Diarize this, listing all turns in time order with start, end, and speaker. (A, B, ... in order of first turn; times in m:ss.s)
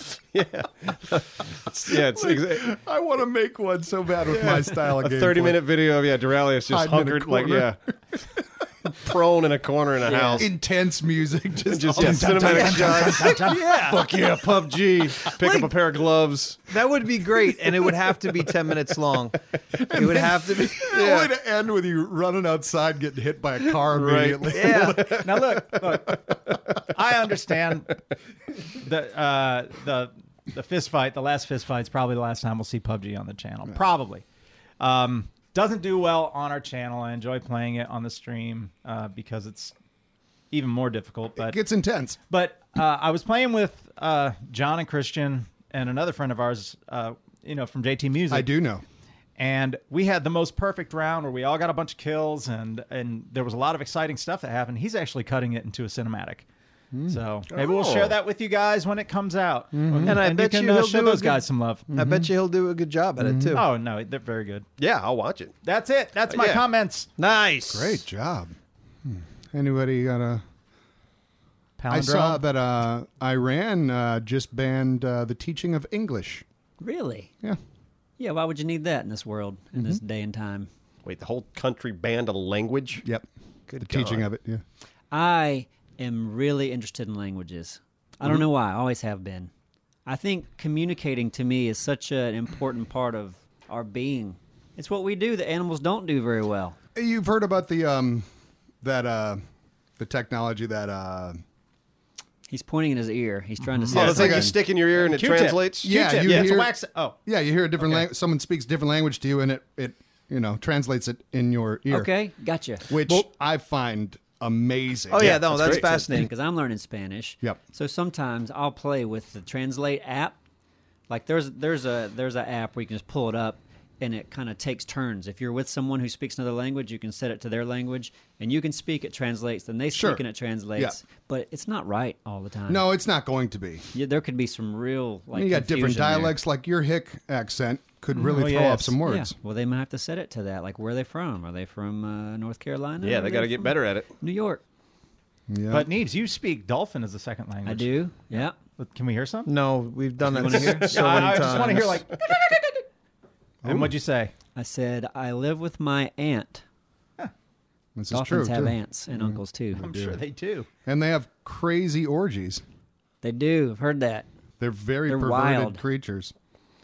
0:00.3-0:02.7 A
0:01.9-0:05.6 B
0:04.3-0:07.8 A
0:06.7-0:08.9 B
0:09.0-0:10.5 A
0:10.1-0:10.4 C
0:10.4-0:14.2 B
0:11.7-0:16.7 A
0:12.0-0:13.7 D
0:13.3-0:14.1 C
0:15.2-0:15.7 C
0:16.7-0:21.3 C
0:19.7-0:26.1 B
0:23.9-0:25.2 A
0:24.5-0:25.1 C
0:25.0-0:28.0 D
0:28.7-0:34.2 D
0:34.8-0:39.7 D
0:40.5-0:41.6 D
0:41.4-0:42.2 B
0:42.3-0:48.5 D
0:48.3-0:48.8 B
0:49.4-0:56.5 D
0:56.9-0:57.2 B
0:57.1-1:01.9 D
0:57.5-0:58.2 A
0:59.7-1:00.2 B
1:00.0-1:03.6 C
1:01.9-1:02.3 B
1:03.2-1:03.6 B
1:03.5-1:04.7 D
1:04.8-1:05.5 A
1:05.6-1:07.1 D
1:06.3-1:06.6 A
1:07.2-1:08.0 C
1:07.7-1:10.4 B
1:11.8-1:12.4 D
1:11.9-1:16.4 B
1:16.8-1:17.3 E
1:18.2-1:20.7 E
1:21.0-1:23.0 A
1:23.0-1:23.3 B
1:23.7-1:24.2 A
1:23.8-1:24.6 B
1:25.1-1:29.5 E
1:30.1-1:36.8 E
1:37.0-1:38.3 B
1:38.8-1:39.4 B
1:40.0-1:41.4 B
1:42.5-1:44.6 E
1:43.7-1:47.2 D
1:43.9-1:44.6 B
1:43.9-1:46.5 A
1:45.8-1:46.7 B
1:47.2-1:52.1 B
1:51.9-1:52.9 E
1:52.9-1:56.0 B
1:55.1-1:56.3 C
1:55.2-1:55.9 A
1:55.9-2:00.4 E
2:01.1-2:12.8 E
2:09.9-2:10.2 B
2:12.7-2:13.9 B
2:13.9-2:16.4 E
2:15.3-2:19.3 B
2:18.1-2:19.0 D
2:19.0-2:24.6 E
2:23.0-2:24.1 A
2:25.5-2:25.9 B
2:25.7-2:29.5 D
2:27.6-2:28.6 E
2:29.5-2:32.0 C
2:30.3-2:31.8 E
2:30.6-2:32.0 A
2:30.9-2:32.8 D
2:33.6-2:34.0 B
2:33.6-2:34.3 D
2:34.6-2:36.6 E
2:38.0-2:40.2 B
2:38.1-2:39.8 E
2:39.8-2:40.7 D
2:40.9-2:42.6 B
2:43.2-2:44.3 E
2:44.6-2:46.3 B
2:45.1-2:45.8 E